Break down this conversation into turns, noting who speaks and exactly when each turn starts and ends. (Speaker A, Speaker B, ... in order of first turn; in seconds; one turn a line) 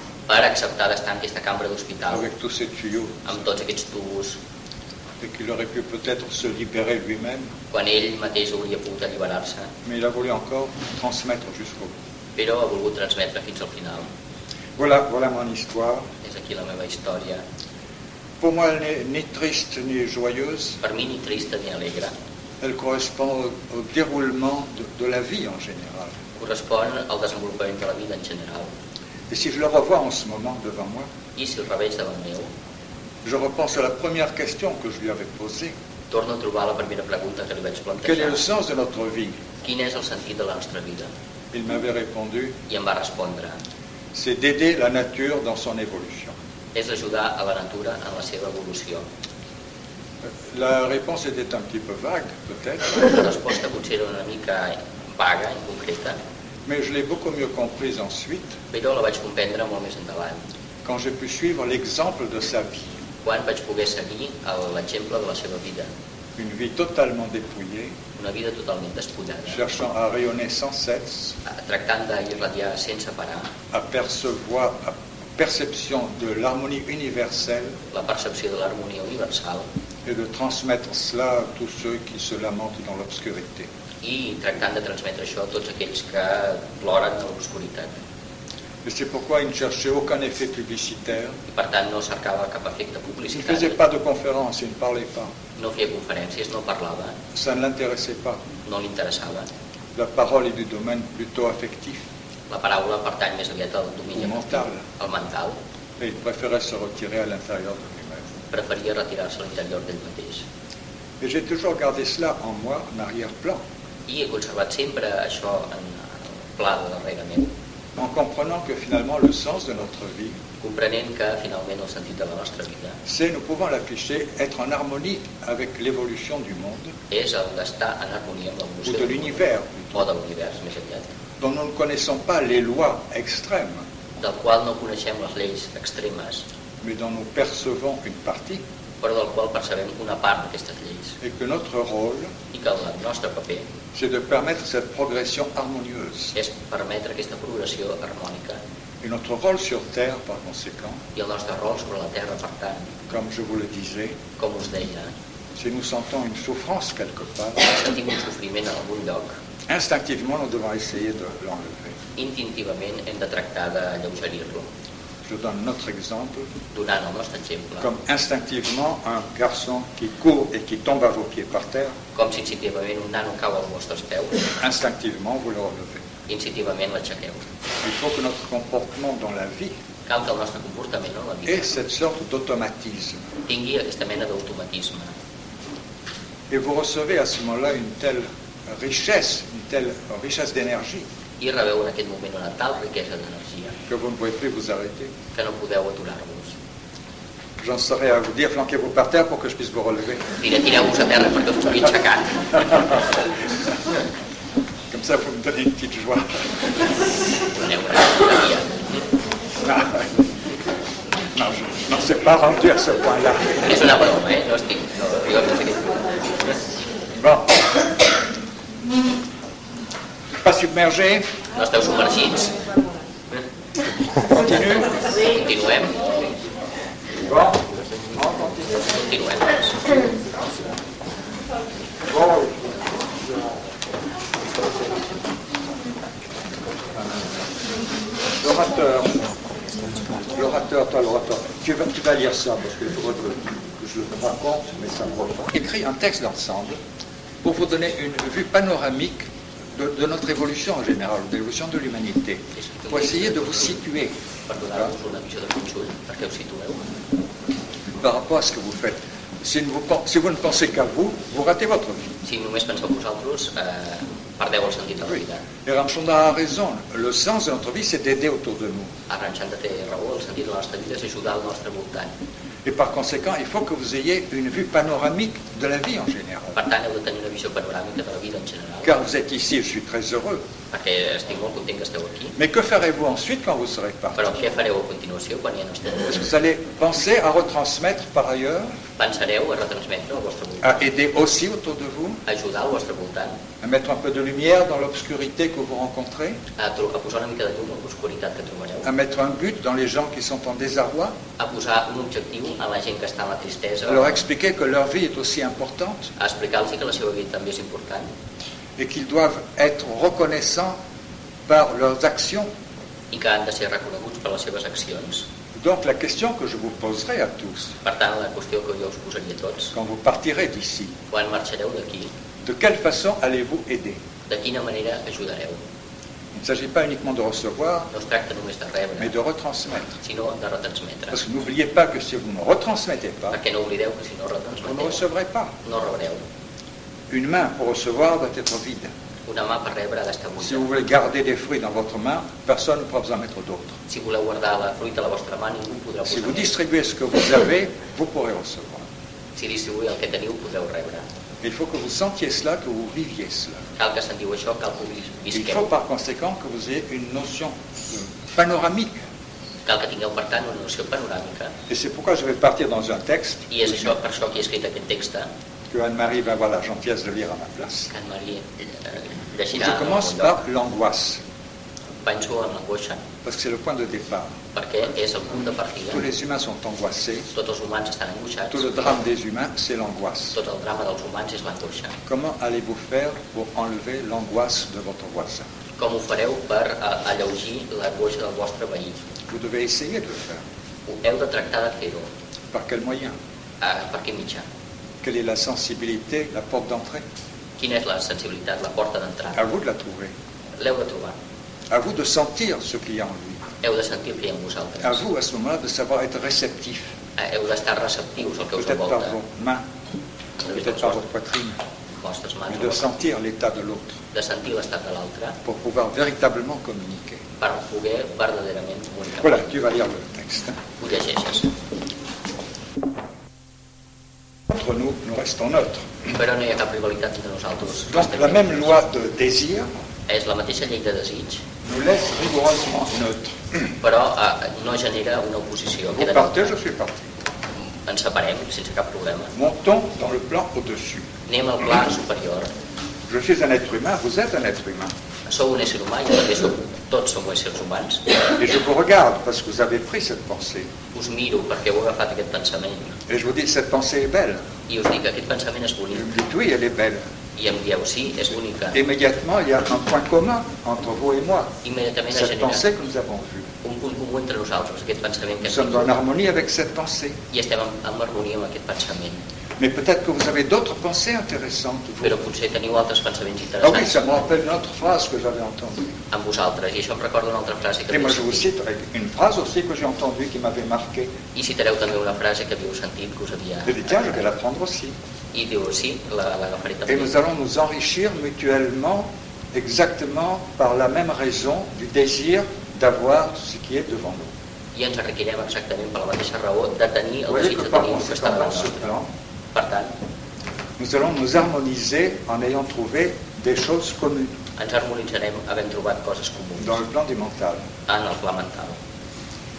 Speaker A: 0.3-2.2
Speaker B: 2.1-3.4
Speaker A: 3.3-4.4
Speaker B: 5.2-7.5
Speaker A: 7.7-9.7
Speaker B: 9.8-11.9
Speaker A: 12.4-14.1
Speaker B: 14.8-16.1
Speaker A: 16.2-17.4
Speaker B: 18.4-20.8
Speaker A: 20.8-22.1
Speaker B: 22.6-26.1
Speaker A: 26.4-28.7
Speaker B: 29.3-31.1
Speaker A: 31.4-32.5
Speaker B: 33.2-35.7
Speaker A: 36.1-38.4
Speaker B: 38.0-39.4
Speaker A: 39.6-41.1
Speaker B: 41.5-42.6
Speaker A: 42.7-43.6
Speaker B: 44.1-46.4
Speaker A: 46.8-49.0
Speaker B: 50.4-52.9
Speaker A: 52.9-56.2
Speaker B: 56.7-58.5
Speaker A: 58.7-60.4
Speaker B: 60.9-62.9
Speaker A: 63.2-65.9
Speaker B: 66.4-68.0
Speaker A: 68.2-69.6
Speaker B: 69.5-71.3
Speaker A: 71.5-73.5
Speaker B: 73.7-77.7
Speaker A: 77.9-79.7
Speaker B: 80.1-83.7
Speaker A: 84.0-87.9
Speaker B: 88.8-91.4
Speaker A: 91.5-93.8
Speaker B: 93.3-95.3
Speaker A: 95.6-97.2
Speaker B: 97.3-98.4
Speaker A: 98.7-99.5
Speaker B: 100.0-102.0
Speaker A: 102.5-105.6
Speaker B: 104.2-104.8
Speaker B: 106.0-108.2
Speaker A: 108.5-110.4
Speaker B: 111.2-113.6
Speaker A: 114.1-117.5
Speaker B: 118.0-120.4
Speaker A: 120.6-123.0
Speaker B: 123.1-126.9
Speaker A: 127.1-129.4
Speaker B: 128.8-130.1
Speaker A: 129.9-131.1
Speaker B: 131.4-133.8
Speaker A: 134.2-136.4
Speaker B: 136.8-138.6
Speaker A: 139.0-141.2
Speaker B: 141.2-142.3
Speaker A: 142.5-143.7
Speaker B: 143.9-146.3
Speaker A: 146.3-148.6
Speaker B: 149.0-151.0
Speaker A: 151.2-152.9
Speaker B: 153.1-154.2
Speaker A: 154.4-155.1
Speaker B: 155.6-157.6
Speaker A: 157.6-159.3
Speaker B: 159.7-162.0
Speaker A: 162.2-164.7
Speaker B: 165.3-166.5
Speaker A: 166.7-167.9
Speaker B: 167.8-172.0
Speaker A: 172.2-174.4
Speaker B: 174.6-176.0
Speaker A: 176.3-177.4
Speaker B: 177.8-179.7
Speaker A: 180.1-181.7
Speaker B: 181.5-183.3
Speaker A: 183.5-185.1
Speaker B: 186.5-191.1
Speaker A: 191.4-193.8
Speaker B: 193.9-195.1
Speaker A: 195.3-196.6
Speaker B: 197.6-200.3
Speaker A: 200.4-202.6
Speaker B: 204.9-206.5
Speaker A: 207.5-208.8
Speaker B: 209.6-210.1
Speaker B: 211.3-213.8
Speaker A: 213.6-216.1
Speaker B: 217.2-217.7
Speaker B: 220.4-221.3
Speaker A: 221.6-222.6
Speaker B: 224.3-224.9
Speaker A: 225.1-226.0
Speaker B: 227.2-227.6
Speaker B: 228.1-228.9
Speaker A: 228.9-230.0
Speaker B: 232.1-232.8
Speaker B: 238.4-239.3
Speaker B: 240.3-246.8
Speaker B: 247.4-254.1
Speaker A: 252.6-253.8
Speaker A: 254.5-256.8
Speaker B: 258.0-262.1
Speaker A: 262.2-265.4
Speaker B: 265.1-268.9
Speaker A: 269.1-272.1
Speaker B: 272.6-276.6
Speaker A: 276.6-279.0
Speaker B: 278.8-280.4
Speaker A: 280.7-282.4
Speaker B: 282.4-284.2
Speaker A: 284.2-286.2
Speaker B: 286.1-288.7
Speaker A: 289.0-290.9
Speaker B: 290.6-292.2
Speaker A: 292.3-293.4
Speaker B: 293.6-296.4
Speaker A: 296.6-298.9
Speaker B: 298.8-301.2
Speaker A: 301.4-304.2
Speaker B: 303.9-306.1
Speaker A: 306.2-308.1
Speaker B: 308.8-310.8
Speaker B: 311.5-312.5
Speaker A: 313.1-315.3
Speaker B: 315.6-317.7
Speaker A: 317.8-319.7
Speaker B: 319.7-320.9
Speaker A: 321.1-322.1
Speaker B: 322.4-324.0
Speaker A: 324.3-325.6
Speaker B: 326.4-327.9
Speaker A: 327.9-329.1
Speaker B: 329.0-329.9
Speaker A: 330.0-331.2
Speaker B: 331.1-333.4
Speaker A: 333.3-335.0
Speaker B: 334.6-335.5
Speaker A: 335.6-336.2
Speaker B: 337.1-338.9
Speaker A: 339.3-340.7
Speaker B: 340.4-343.7
Speaker A: 343.9-346.5
Speaker B: 346.1-348.9
Speaker A: 349.4-351.0
Speaker B: 351.4-353.6
Speaker A: 353.8-355.7
Speaker B: 355.3-359.0
Speaker A: 359.7-361.5
Speaker B: 361.7-363.9
Speaker A: 363.5-365.3
Speaker B: 365.7-367.9
Speaker A: 367.9-370.4
Speaker B: 369.5-371.2
Speaker A: 372.0-373.0
Speaker B: 373.2-374.4
Speaker A: 374.5-376.0
Speaker B: 375.9-377.3
Speaker A: 377.3-379.0
Speaker B: 378.5-380.4
Speaker A: 380.3-382.0
Speaker B: 382.1-385.5
Speaker A: 385.8-389.0
Speaker B: 389.3-390.4
Speaker A: 390.9-392.1
Speaker B: 392.5-393.2
Speaker A: 393.6-394.4
Speaker B: 395.0-397.0
Speaker A: 397.6-399.4
Speaker B: 399.4-400.1
Speaker A: 400.6-401.1
Speaker B: 401.7-403.4
Speaker A: 403.6-405.0
Speaker B: 404.8-406.9
Speaker A: 407.2-409.2
Speaker B: 408.6-409.6
Speaker A: 410.4-411.0
Speaker B: 410.5-411.6
Speaker A: 412.0-412.9
Speaker B: 412.5-414.0
Speaker A: 414.1-415.4
Speaker B: 415.4-417.2
Speaker A: 417.4-419.5
Speaker B: 419.2-420.6
Speaker A: 420.8-421.5
Speaker B: 424.5-425.9
Speaker A: 426.1-428.7
Speaker B: 427.9-429.7
Speaker A: 430.1-431.4
Speaker B: 431.6-433.7
Speaker A: 433.8-436.5
Speaker B: 435.9-437.1
Speaker A: 437.6-439.3
Speaker B: 439.3-441.1
Speaker A: 441.3-442.5
Speaker B: 443.1-444.9
Speaker A: 445.3-448.1
Speaker B: 448.4-450.7
Speaker A: 450.9-453.0
Speaker B: 453.1-454.4
Speaker A: 454.7-456.1
Speaker B: 455.9-457.0
Speaker A: 457.4-458.8
Speaker B: 458.7-461.5
Speaker A: 461.6-462.6
Speaker B: 462.1-463.5
Speaker A: 463.6-466.0
Speaker B: 465.4-467.2
Speaker A: 467.3-469.2
Speaker B: 469.6-472.2
Speaker A: 472.0-474.0
Speaker B: 473.6-476.0
Speaker A: 476.1-478.5
Speaker B: 477.9-481.1
Speaker A: 481.3-484.2
Speaker B: 483.6-484.9
Speaker A: 485.3-487.1
Speaker B: 486.9-494.3
Speaker A: 494.8-498.9
Speaker B: 497.3-499.1
Speaker A: 499.5-499.9
Speaker B: 500.8-504.4
Speaker A: 504.6-506.8
Speaker B: 506.6-507.7
Speaker A: 507.9-508.8